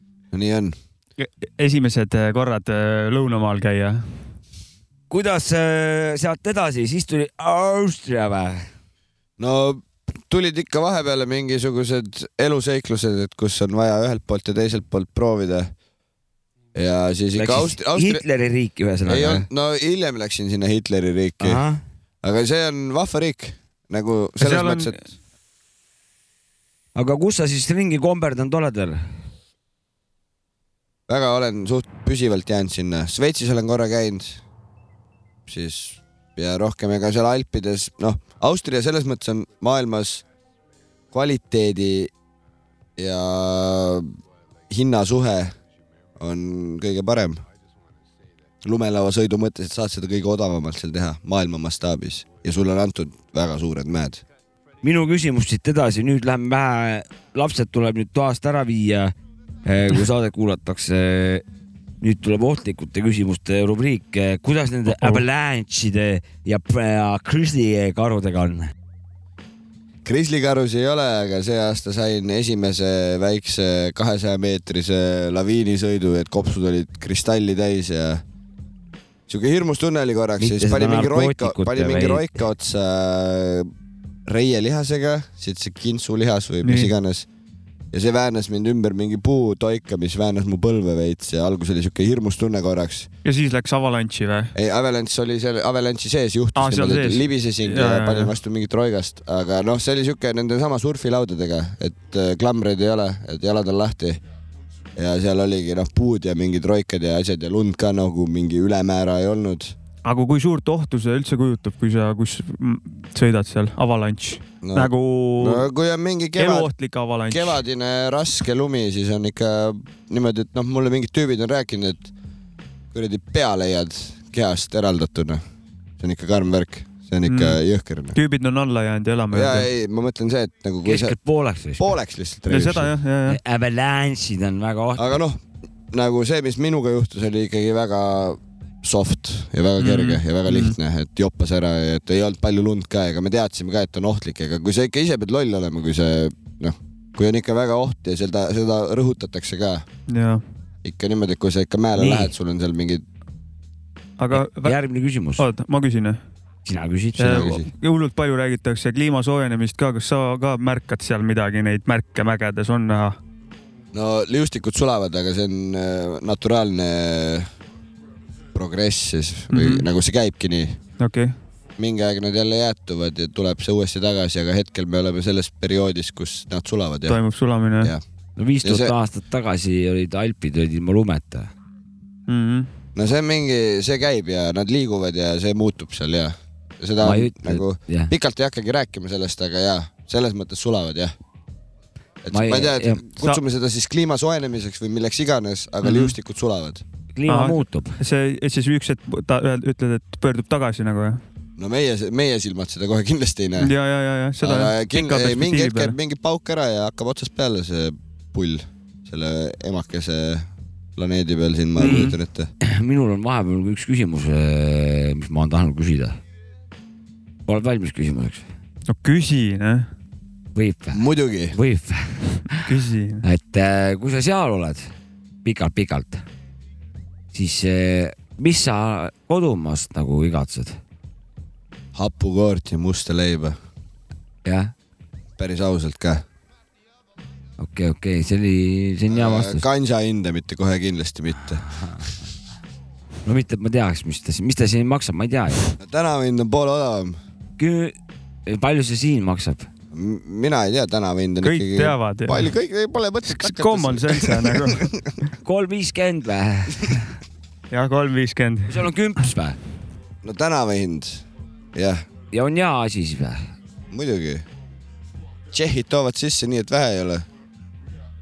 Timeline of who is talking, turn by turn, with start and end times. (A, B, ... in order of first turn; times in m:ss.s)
0:00.3-0:00.8 A
0:01.2-0:04.1 B
0:05.1-0:08.7 C
0:09.4-0:15.7 A
0:16.7-0:18.2 A
0:17.4-0:19.5 C
0:19.0-0:21.6 A
0:21.4-0:21.8 C
0:22.2-0:25.0 A
0:24.4-0:25.0 B
0:27.0-0:29.0 C
0:31.1-0:34.4 A
0:35.5-0:40.2 A
0:41.1-0:42.1 A
0:43.0-0:44.2 A
0:44.7-0:45.6 A
0:46.2-0:47.4 A
0:48.6-0:54.2 A
0:54.8-0:59.1 C
0:59.6-1:01.4 C
1:02.0-1:08.7 C
1:04.9-1:05.2 B
1:10.0-1:18.2 A
1:19.3-1:23.7 A
1:20.4-1:22.4 C
1:24.3-1:27.3 A
1:26.6-1:26.9 B
1:27.9-1:33.1 A
1:33.2-1:34.5 B
1:34.6-1:44.2 A
1:36.6-1:38.3 B
1:45.0-1:49.8 A
1:50.0-1:55.6 B
1:54.6-1:56.7 A
1:56.4-1:57.6 B
1:57.3-2:02.1 A
2:02.9-2:05.4 A
2:06.0-2:08.2 A
2:07.3-2:07.6 B
2:08.2-2:09.7 B
2:09.3-2:11.2 A
2:10.8-2:11.9 C
2:11.8-2:12.9 A
2:12.5-2:13.4 B
2:13.3-2:15.1 C
2:15.0-2:29.8 A
2:19.8-2:20.8 B
2:30.1-2:30.4 B
2:30.8-2:33.0 A
2:32.0-2:32.3 C
2:34.2-2:34.8 B
2:34.3-2:35.5 C
2:35.4-2:36.2 B
2:36.7-2:37.6 C
2:37.2-2:43.2 B
2:37.3-2:37.7 A
2:43.9-2:47.5 A
2:48.5-2:50.8 A
2:49.5-2:49.9 B
2:51.0-2:51.3 B
2:51.8-2:57.2 A
2:57.1-2:57.9 B
2:58.4-3:01.5 C
2:58.6-2:58.9 A
3:02.3-3:02.7 B
3:03.0-3:11.2 A
3:07.0-3:08.1 C
3:12.2-3:16.8 A
3:12.3-3:13.0 C
3:15.8-3:16.1 B
3:17.2-3:18.0 C
3:17.3-3:21.2 B
3:21.6-3:23.7 A
3:23.6-3:26.0 B
3:24.4-3:32.5 A
3:31.8-3:32.1 C
3:32.6-3:36.2 C
3:37.5-3:38.5 C
3:38.9-3:39.9 B
3:40.6-3:42.6 C
3:40.9-3:41.6 A
3:42.7-3:43.2 B
3:43.2-3:44.9 C
3:45.4-3:46.2 C
3:47.3-3:50.8 C
3:52.0-3:53.6 A
3:54.4-3:54.7 C
3:55.4-3:56.2 A
3:57.6-3:59.6 C
3:59.1-4:01.7 A
4:03.3-4:05.7 C
4:05.8-4:07.2 A
4:07.6-4:08.0 C
4:08.5-4:09.7 C
4:09.9-4:15.0 A
4:11.4-4:12.5 B
4:13.3-4:14.9 B
4:15.4-4:17.1 C
4:17.7-4:18.9 B
4:18.7-4:19.6 C
4:20.2-4:22.0 A
4:22.3-4:23.5 C
4:23.9-4:24.5 A
4:25.5-4:27.3 A